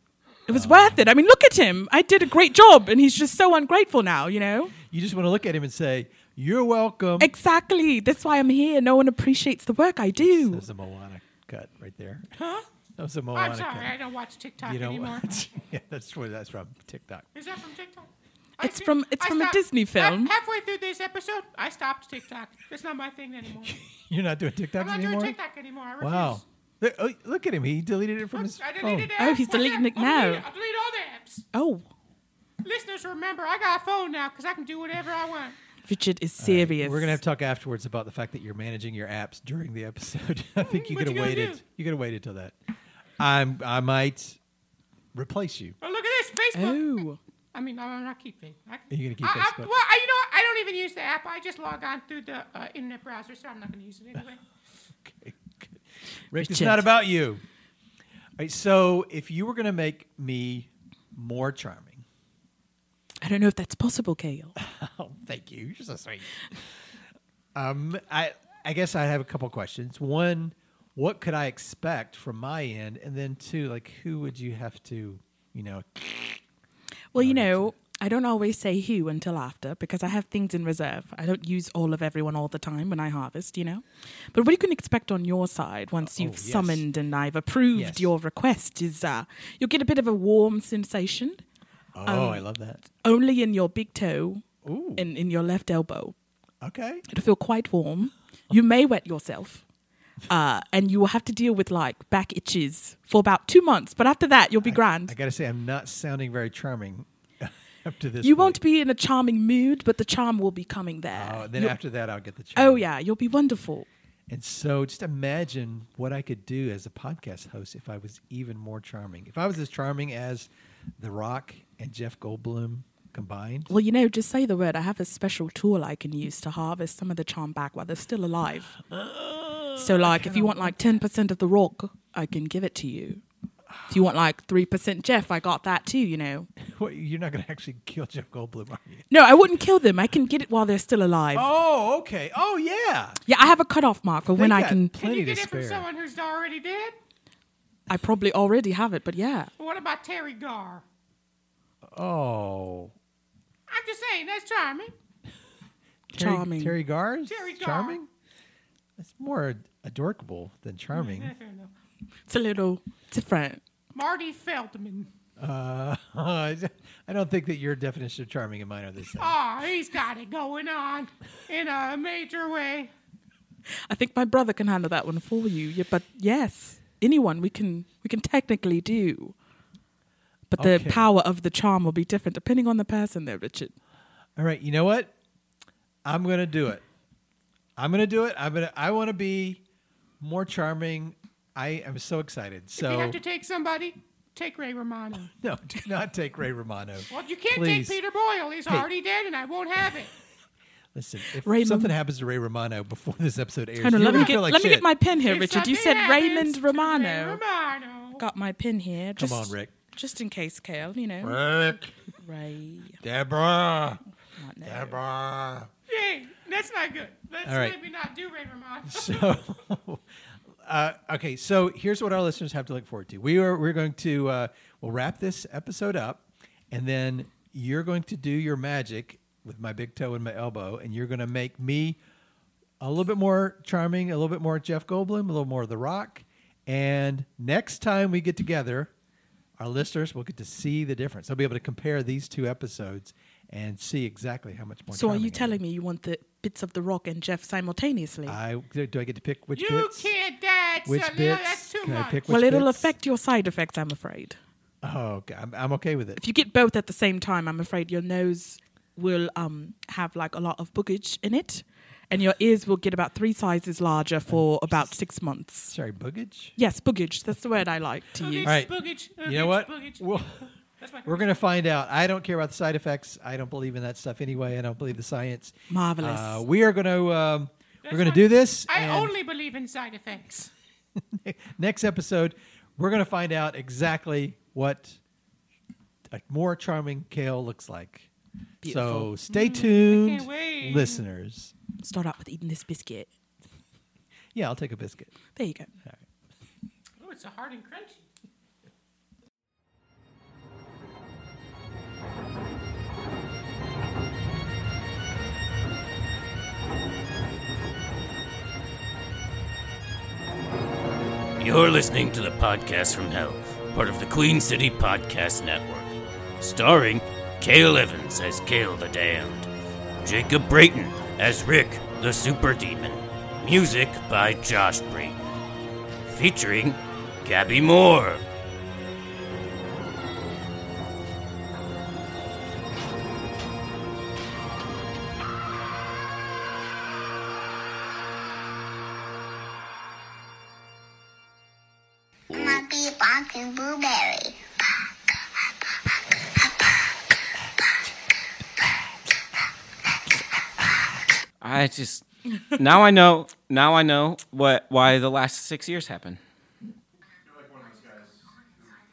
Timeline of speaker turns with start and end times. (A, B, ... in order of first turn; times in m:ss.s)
0:00.5-0:04.7 A
0:00.5-0:01.0 B
0:04.9-0:07.3 B
0:07.2-0:10.6 A
0:10.2-0:12.3 B
0:12.4-0:12.6 C
0:13.0-0:13.9 B
0:13.3-0:15.5 C
0:14.6-0:17.2 B
0:17.3-0:18.1 C
0:18.6-0:20.3 A
0:18.6-0:23.8 C
0:23.6-0:25.4 B
0:24.8-0:26.4 C
0:26.0-0:29.1 B
0:28.3-0:31.4 C
0:29.2-0:30.4 A
0:31.5-0:31.9 A
0:32.6-0:35.6 C
0:35.9-0:37.2 A
0:36.4-0:42.6 B
0:40.6-0:41.6 C
0:43.2-0:44.4 B
0:45.1-0:45.8 B
0:45.8-0:47.0 C
0:46.5-0:47.2 A
0:47.5-0:54.4 C
0:48.9-0:49.7 B
0:55.0-0:55.7 B
0:56.3-0:57.4 B
0:56.3-0:56.9 A
0:58.4-1:02.0 B
1:03.2-1:04.5 A
1:04.6-1:06.3 B
1:07.6-1:16.4 B
1:17.1-1:31.4 A
1:17.2-1:17.7 B
1:26.0-1:26.8 B
1:27.7-1:28.1 B
1:32.0-1:32.8 B
1:32.0-1:34.4 A
1:34.6-1:35.0 B
1:35.0-1:36.1 A
1:36.6-1:37.0 B
1:37.1-1:39.6 A
1:40.3-1:45.1 A
1:44.6-1:48.6 B
1:48.2-1:51.8 A
1:51.1-1:52.8 B
1:52.5-1:53.9 A
1:54.3-2:00.5 B
2:01.0-2:03.7 B
2:03.7-2:08.8 A
2:08.9-2:11.0 B
2:09.8-2:13.2 A
2:13.7-2:14.0 B
2:13.9-2:16.5 A
2:16.6-2:19.1 B
2:19.1-2:21.5 A
2:21.3-2:23.2 B
2:23.2-2:24.9 A
2:24.4-2:25.8 B
2:25.0-2:26.9 C
2:27.9-2:29.5 A
2:29.6-2:30.8 C
2:31.9-2:32.9 B
2:33.7-2:34.9 C
2:36.1-2:38.1 B
2:36.1-2:36.8 A
2:37.3-2:38.0 C
2:39.0-2:41.3 B
2:40.9-2:41.7 C
2:42.3-2:43.6 A
2:43.9-2:45.1 C
2:45.4-2:49.3 B
2:49.2-2:52.9 C
2:53.9-2:59.3 A
3:00.5-3:03.7 A
3:00.6-3:01.1 B
3:04.4-3:05.1 B
3:06.0-3:06.8 B
3:07.8-3:09.6 B
3:10.2-3:13.2 B
3:12.8-3:15.3 C
3:15.4-3:18.0 B
3:17.1-3:20.1 C
3:20.9-3:24.9 B
3:21.4-3:21.9 A
3:23.8-3:27.4 A
3:25.2-3:28.2 C
3:28.2-3:31.4 A
3:29.2-3:29.7 B
3:31.2-3:31.9 B
3:32.2-3:33.0 A
3:33.0-3:34.0 B
3:34.2-3:35.0 A
3:34.6-3:35.7 B
3:35.9-3:39.4 C
3:37.4-3:37.8 B
3:38.9-3:40.0 B
3:40.6-3:52.0 B
3:52.8-3:58.9 B
3:59.6-4:05.6 B
4:04.9-4:08.4 A
4:08.2-4:10.1 B
4:09.5-4:12.2 C
4:10.8-4:12.9 B
4:12.2-4:14.4 A
4:14.8-4:16.2 B
4:16.2-4:25.7 A
4:24.3-4:25.0 B
4:25.7-4:26.5 B
4:26.6-4:28.5 A
4:28.1-4:31.4 C
4:28.4-4:30.5 B
4:31.0-4:39.1 B
4:35.7-4:36.4 A
4:37.8-4:40.5 C
4:41.0-4:45.0 B
4:46.1-4:48.1 B
4:48.6-4:49.6 A
4:48.6-4:51.5 B
4:49.7-4:51.0 C
4:51.8-4:53.1 A
4:54.3-4:55.1 B
4:55.3-4:55.7 A
4:57.0-4:58.0 C
5:11.4-5:19.5 D
5:20.0-5:25.2 D
5:26.0-5:28.2 D
5:42.3-5:44.4 E
5:51.4-5:52.0 F
5:52.6-5:56.2 F